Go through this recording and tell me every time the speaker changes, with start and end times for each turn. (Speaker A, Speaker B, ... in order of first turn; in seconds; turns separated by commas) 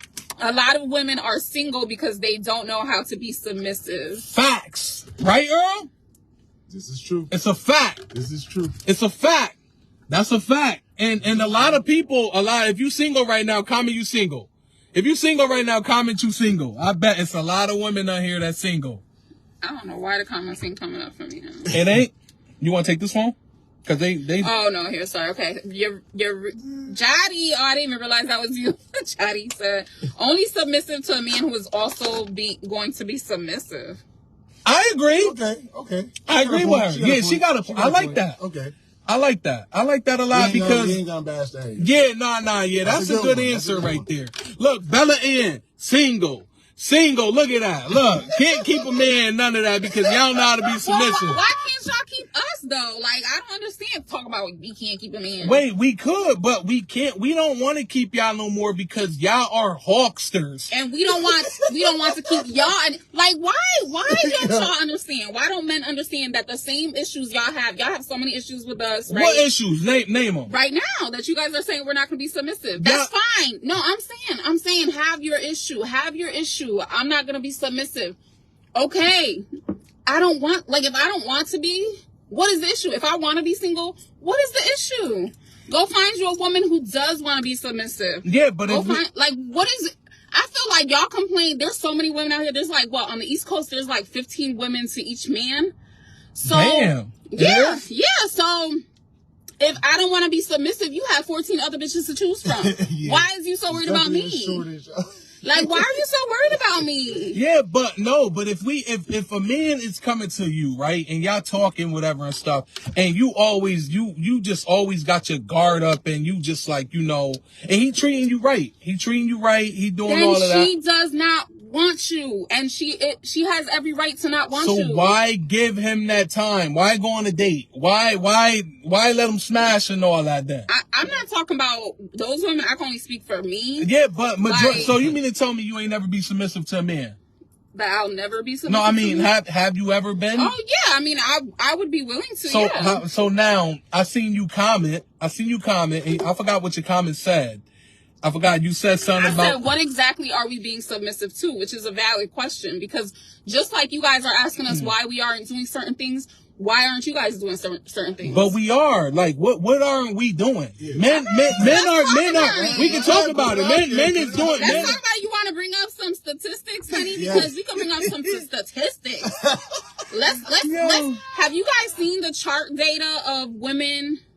Speaker A: 0.4-4.3, Speaker B: 4.3-5.9, Speaker C: 6.7-7.3, Speaker B: 7.3-8.0, Speaker C: 8.1-8.8, Speaker B: 8.8-9.6, Speaker B: 10.1-19.0, Speaker C: 11.2-11.8, Speaker A: 19.6-21.7, Speaker B: 21.7-24.5, Speaker A: 24.4-34.0, Speaker B: 34.6-35.4, Speaker C: 35.2-38.7, Speaker B: 36.3-38.4, Speaker B: 39.1-41.0, Speaker C: 40.3-41.9, Speaker B: 41.8-51.4, Speaker C: 42.8-44.1, Speaker A: 50.8-55.6, Speaker B: 55.4-60.7, Speaker A: 60.7-69.5, Speaker C: 61.2-62.2, Speaker C: 64.1-64.7, Speaker B: 69.1-70.5, Speaker A: 70.5-78.2, Speaker B: 72.8-73.1, Speaker A: 78.8-79.5, Speaker A: 80.1-95.7, Speaker B: 88.2-89.0, Speaker A: 96.3-98.8, Speaker B: 96.5-97.2, Speaker C: 97.3-97.8, Speaker A: 99.6-104.7, Speaker C: 102.5-106.0, Speaker A: 105.4-107.4, Speaker B: 107.3-120.7, Speaker A: 120.1-125.2, Speaker B: 124.5-130.7, Speaker A: 130.7-133.9, Speaker B: 133.8-137.2, Speaker A: 134.4-135.0, Speaker A: 137.7-139.3, Speaker B: 138.7-140.5, Speaker A: 140.4-143.0, Speaker B: 142.4-147.6, Speaker B: 148.2-149.6, Speaker A: 149.2-158.6, Speaker B: 154.7-154.9, Speaker B: 158.2-165.0, Speaker C: 160.8-165.0, Speaker A: 161.1-163.2, Speaker A: 164.5-169.3, Speaker C: 167.1-167.5, Speaker C: 169.4-169.8, Speaker A: 170.1-174.2, Speaker B: 170.6-171.2